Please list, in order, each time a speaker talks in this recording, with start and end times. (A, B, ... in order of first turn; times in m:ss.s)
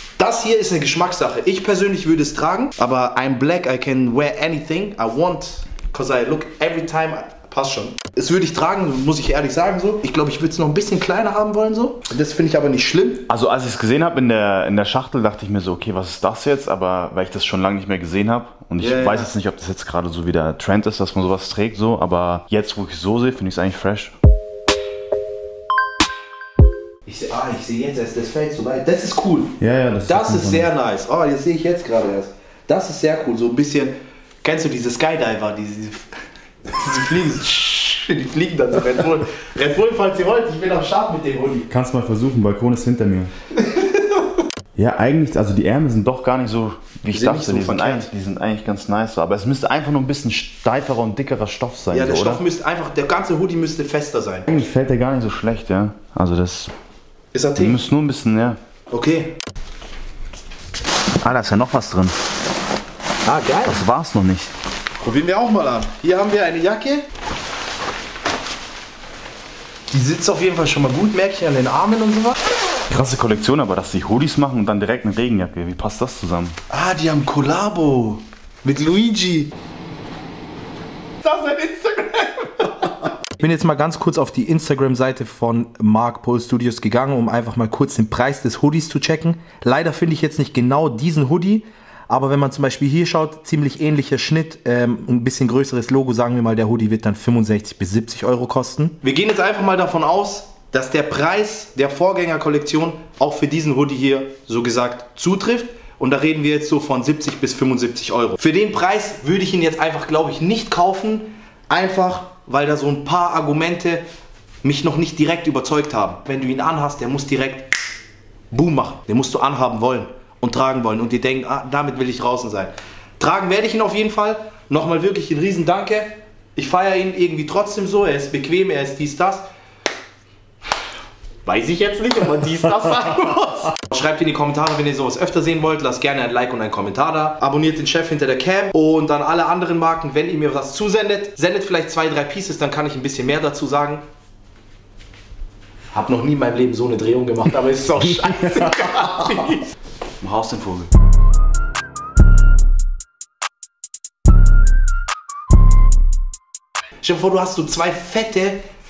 0:00.2-0:13.2 A
0:13.3-0:24.1 B
0:18.8-0:19.3 A
0:27.0-0:36.1 A
0:29.6-0:30.7 B
0:36.7-0:41.7 A
0:41.7-0:43.3 B
0:44.8-0:52.4 B
0:47.1-0:48.1 A
0:51.9-0:54.6 A
0:54.5-0:56.7 B
0:57.3-0:57.8 A
0:57.6-0:58.6 B
0:58.9-0:59.3 A
1:01.2-1:02.1 B
1:03.2-1:03.8 A
1:03.6-1:04.5 B
1:05.0-1:07.0 A
1:09.9-1:12.4 A
1:12.9-1:16.6 B
1:16.7-1:19.5 A
1:21.2-1:54.0 A
1:54.6-1:57.7 A
1:58.5-2:09.4 A
2:11.4-2:24.0 A
2:25.9-2:29.7 A
2:28.2-2:29.2 B
2:30.2-2:30.9 B
2:37.0-2:38.6 A